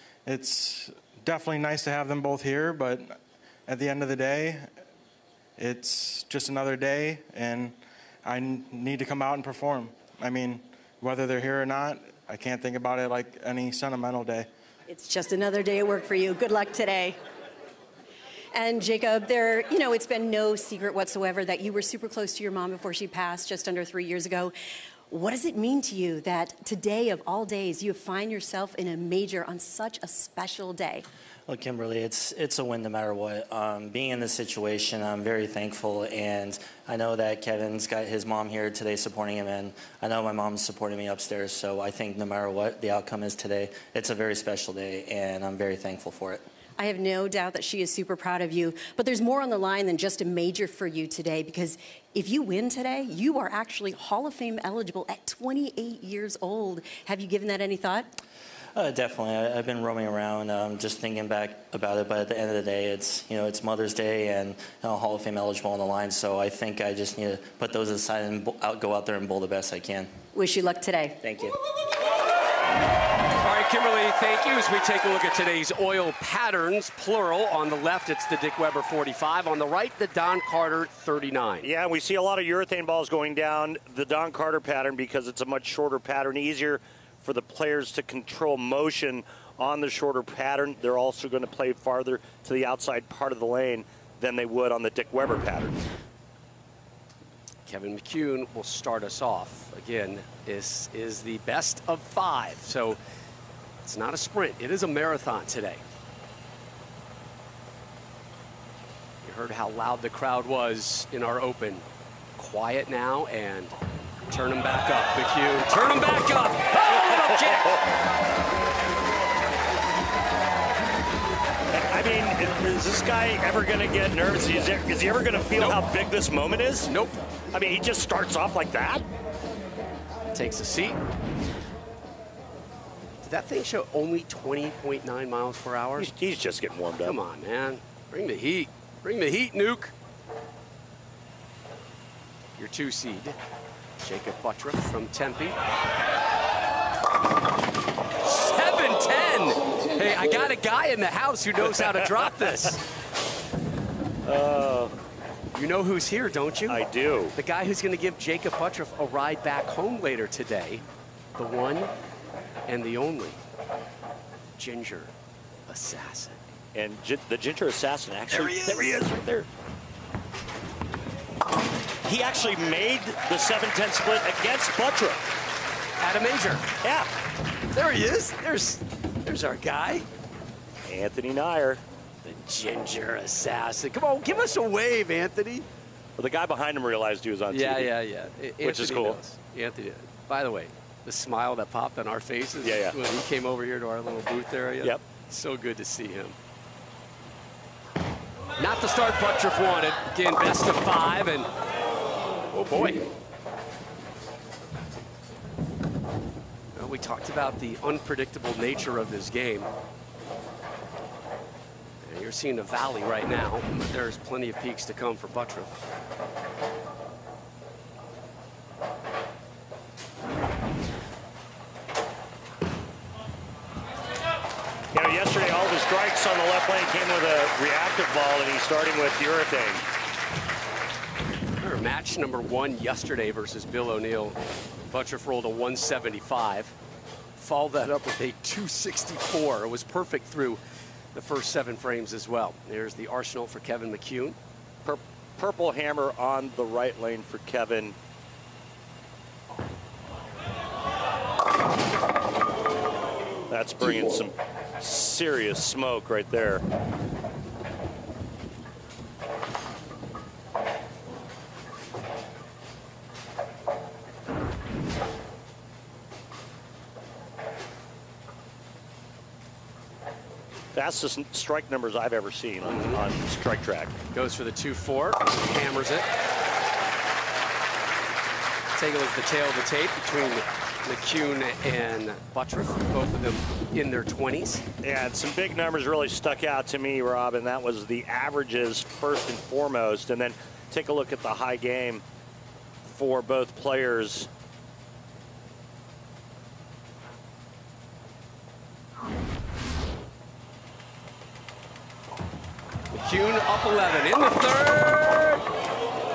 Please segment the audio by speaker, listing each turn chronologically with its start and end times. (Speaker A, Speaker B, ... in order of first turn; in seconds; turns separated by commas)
Speaker A: 0.3-4.7, Speaker A: 5.6-14.5, Speaker B: 14.9-17.2, Speaker B: 18.5-24.5, Speaker B: 25.1-31.1, Speaker C: 31.5-46.5, Speaker B: 46.8-58.1, Speaker C: 58.8-70.1, Speaker B: 70.3-71.2, Speaker C: 71.2-71.6, Speaker D: 73.4-81.7, Speaker E: 81.6-95.8, Speaker D: 97.7-103.0, Speaker D: 103.8-105.8, Speaker D: 109.2-111.9, Speaker D: 112.4-113.8, Speaker D: 114.3-117.8, Speaker E: 117.0-117.8, Speaker E: 121.7-126.9, Speaker D: 125.6-125.8, Speaker D: 126.9-127.2, Speaker E: 127.5-129.1, Speaker D: 130.3-131.0, Speaker D: 133.2-136.1, Speaker E: 136.0-137.2, Speaker D: 137.0-139.9, Speaker D: 142.6-143.4, Speaker D: 144.0-145.6, Speaker D: 148.2-152.8, Speaker E: 154.2-154.9, Speaker D: 155.5-156.8, Speaker E: 156.7-157.3, Speaker D: 157.4-160.8, Speaker D: 161.4-161.9, Speaker D: 162.7-163.4, Speaker D: 164.6-165.1, Speaker D: 165.7-166.4, Speaker E: 166.8-169.5, Speaker D: 168.3-169.0, Speaker E: 172.1-175.2, Speaker D: 176.0-176.7, Speaker D: 177.7-180.1, Speaker E: 180.9-181.8, Speaker D: 182.2-185.7, Speaker E: 186.2-187.9, Speaker D: 187.5-196.4, Speaker E: 188.6-189.2, Speaker E: 192.6-193.0, Speaker D: 198.6-201.5, Speaker D: 202.5-203.1, Speaker D: 206.8-209.7, Speaker D: 212.0-215.7, Speaker E: 224.9-229.8, Speaker D: 231.6-234.4, Speaker D: 234.9-236.7, Speaker D: 237.4-240.6, Speaker D: 241.1-244.4, Speaker E: 244.8-248.0, Speaker E: 253.5-256.6, Speaker E: 270.7-273.9, Speaker D: 272.6-273.0, Speaker D: 274.1-276.1, Speaker D: 278.8-284.6, Speaker E: 284.8-292.0, Speaker E: 292.9-294.3, Speaker D: 302.9-305.4